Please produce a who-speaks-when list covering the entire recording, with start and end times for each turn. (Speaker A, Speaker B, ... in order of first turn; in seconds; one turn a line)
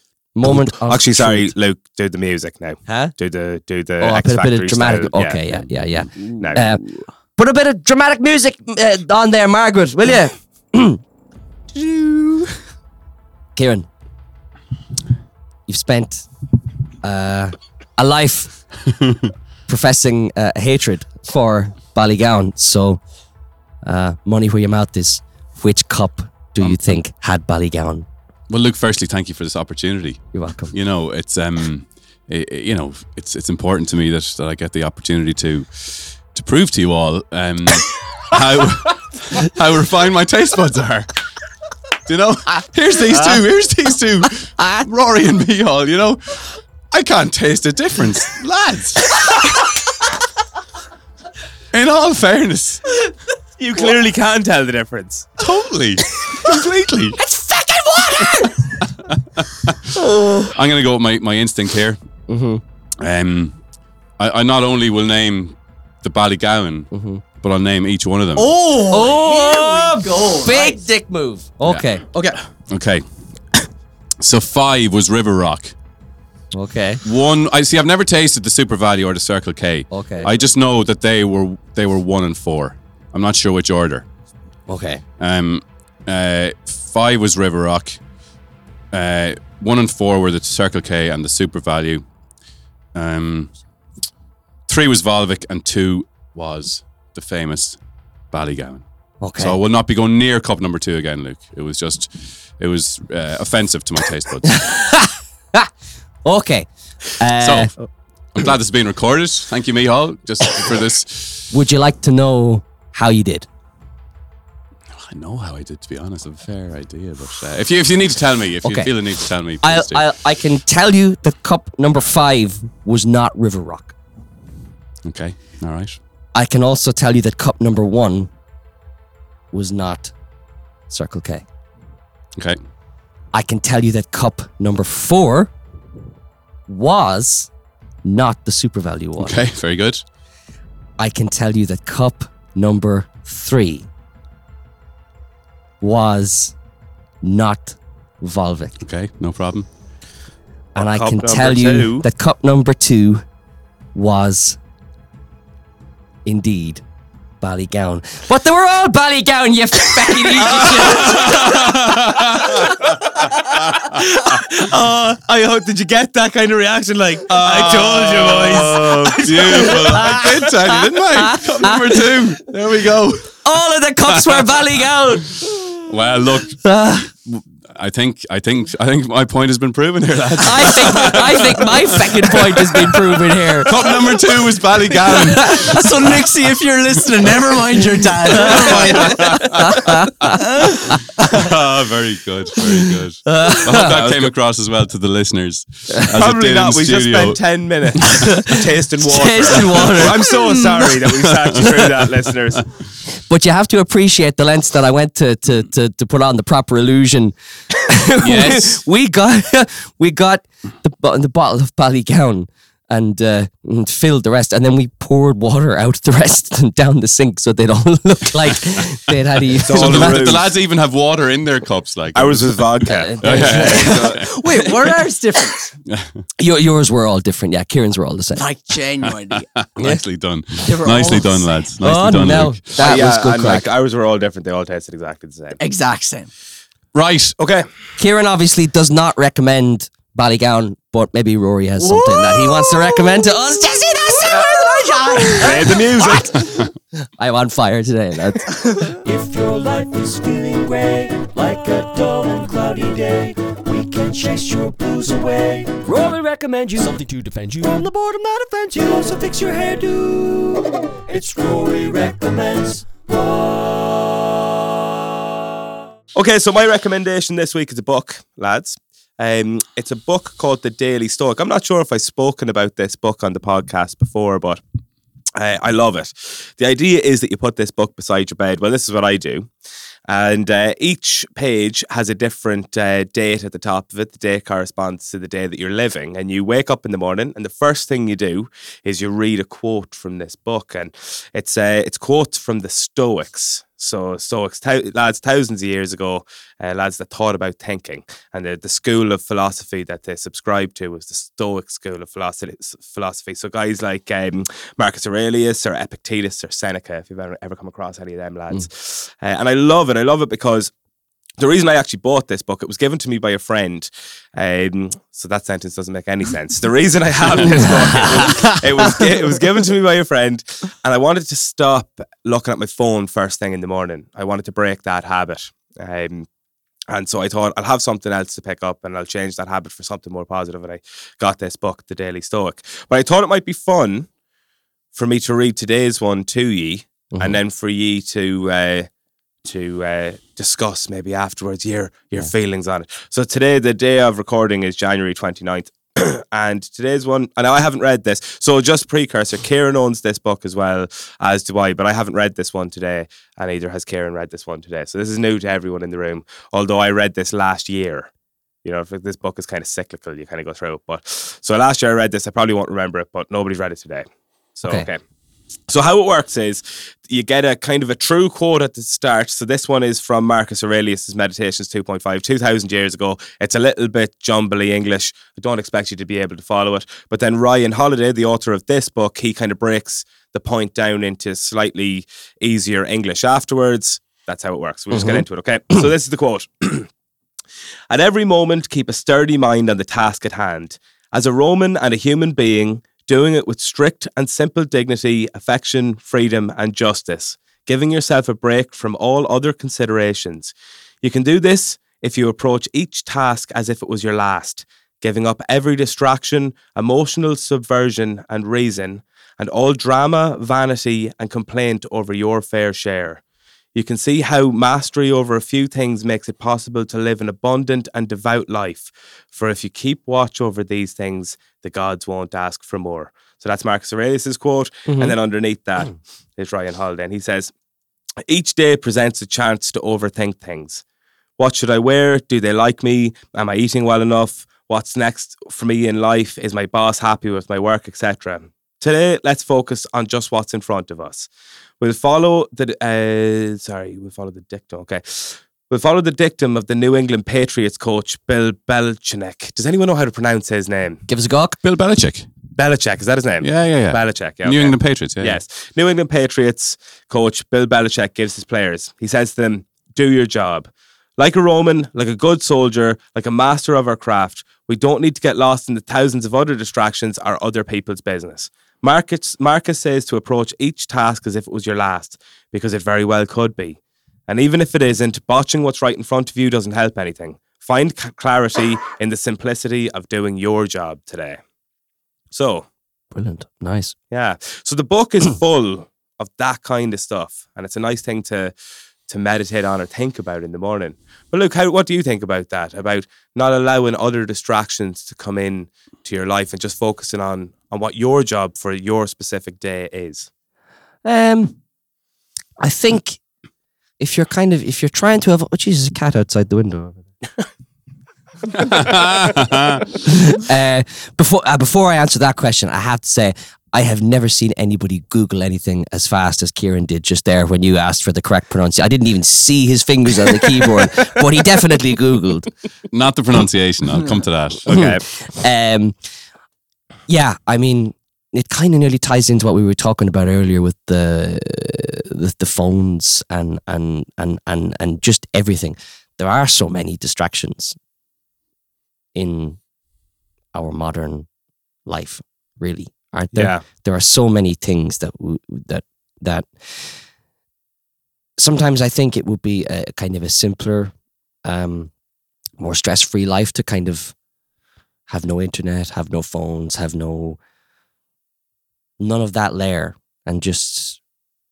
Speaker A: 0.3-1.5
Speaker B: 0.5-5.6
Speaker A: 2.9-3.1
Speaker A: 4.0-11.0
Speaker B: 6.3-6.7
Speaker A: 11.7-12.6
Speaker A: 13.6-13.9
Speaker A: 15.7-16.3
Speaker A: 17.0-18.6
Speaker A: 19.7-23.0
Speaker A: 23.8-28.1
Speaker C: 26.6-27.0
Speaker C: 28.5-41.2
Speaker A: 30.3-30.7
Speaker C: 42.1-49.4
Speaker C: 51.7-53.0
Speaker B: 53.6-55.3
Speaker C: 55.4-57.2
Speaker A: 57.2-58.5
Speaker C: 58.4-62.0
Speaker A: 62.3-62.6
Speaker C: 63.0-63.6
Speaker C: 64.2-68.6
Speaker A: 66.9-67.2
Speaker D: 68.3-70.8
Speaker A: 68.9-72.0
Speaker C: 72.7-73.0
Speaker C: 74.2-75.7
Speaker A: 76.5-77.0
Speaker C: 77.0-84.0
Speaker A: 79.9-80.3
Speaker A: 84.7-85.0
Speaker C: 85.2-88.0
Speaker C: 88.9-92.0
Speaker C: 92.9-93.5
Speaker C: 94.7-97.8
Speaker C: 98.3-98.8
Speaker A: 99.2-99.6
Speaker C: 99.3-104.7
Speaker A: 104.5-105.7
Speaker A: 106.2-107.7
Speaker C: 107.4-107.7
Speaker C: 108.3-111.5
Speaker A: 111.5-113.5
Speaker C: 114.9-120.0
Speaker A: 118.6-118.9
Speaker A: 119.6-123.9
Speaker C: 125.0-126.0
Speaker A: 126.3-128.3
Speaker A: 129.5-130.1
Speaker A: 130.9-131.4
Speaker A: 133.3-135.5
Speaker A: 136.7-137.5
Speaker A: 138.0-139.4
Speaker C: 139.2-140.0
Speaker A: 141.0-143.9
Speaker A: 145.8-146.5
Speaker A: 147.2-148.7
Speaker C: 148.8-149.7
Speaker A: 150.8-153.2
Speaker B: 150.8-152.1
Speaker A: 153.9-154.6
Speaker A: 156.2-156.8
Speaker A: 157.4-161.9
Speaker C: 160.5-162.8
Speaker B: 161.0-161.7
Speaker B: 163.0-170.3
Speaker C: 167.3-173.4
Speaker A: 169.1-172.3
Speaker A: 173.4-175.8
Speaker C: 174.1-174.6
Speaker C: 175.8-176.6
Speaker A: 176.6-177.1
Speaker C: 177.3-186.3
Speaker A: 180.4-184.1
Speaker A: 185.3-185.7
Speaker D: 185.4-189.3
Speaker C: 188.3-197.4
Speaker A: 188.4-190.1
Speaker A: 192.6-194.0
Speaker B: 193.7-194.2
Speaker B: 196.1-202.7
Speaker C: 198.0-198.3
Speaker A: 198.2-200.7
Speaker C: 199.4-200.1
Speaker C: 201.0-202.1
Speaker A: 203.1-220.4
Speaker C: 208.2-208.8
Speaker B: 219.6-220.4
Speaker C: 219.7-224.2
Speaker B: 222.1-224.6
Speaker A: 222.9-224.2
Speaker D: 224.2-225.7
Speaker C: 225.9-226.2
Speaker A: 226.4-228.4
Speaker D: 228.3-229.5
Speaker C: 229.3-232.6
Speaker D: 230.6-231.5
Speaker A: 231.8-233.7
Speaker B: 232.8-235.6
Speaker D: 235.6-236.3
Speaker C: 236.9-237.4
Speaker B: 237.4-237.7
Speaker A: 238.0-246.3
Speaker D: 241.8-243.1
Speaker D: 244.2-245.7
Speaker B: 245.4-246.4
Speaker C: 246.3-246.7
Speaker A: 247.2-248.6
Speaker E: 249.0-264.3
Speaker B: 266.1-274.6
Speaker B: 275.3-279.5
Speaker B: 280.1-310.7
Speaker B: 311.4-326.3
Speaker A: 317.4-318.6
Speaker B: 326.9-334.1
Speaker B: 334.9-338.9
Speaker A: 337.1-337.4
Speaker B: 339.4-358.1
Speaker B: 358.6-365.0
Speaker B: 365.7-386.9
Speaker A: 384.9-385.2
Speaker B: 387.9-413.2
Speaker B: 413.7-427.5
Speaker A: 424.9-425.1
Speaker B: 428.3-430.8
Speaker B: 431.4-441.3
Speaker B: 441.8-451.0
Speaker A: 451.1-451.6
Speaker C: 451.6-452.3
Speaker B: 452.6-481.4
Speaker C: 453.4-455.4
Speaker B: 482.3-482.7
Speaker A: 483.1-483.9
Speaker B: 484.1-488.5
Speaker B: 489.1-500.3
Speaker A: 501.0-501.6
Speaker A: 502.6-503.2
Speaker A: 504.0-507.0
Speaker C: 508.5-509.9
Speaker A: 510.0-522.5
Speaker C: 522.9-524.7
Speaker B: 524.7-525.0
Speaker A: 524.7-525.9
Speaker A: 527.1-537.8
Speaker A: 539.1-539.6
Speaker A: 540.5-541.3
Speaker A: 541.9-547.0
Speaker B: 543.3-543.6
Speaker A: 548.4-550.9
Speaker A: 551.4-551.9
Speaker A: 552.6-554.1
Speaker A: 555.1-557.4
Speaker A: 559.0-561.0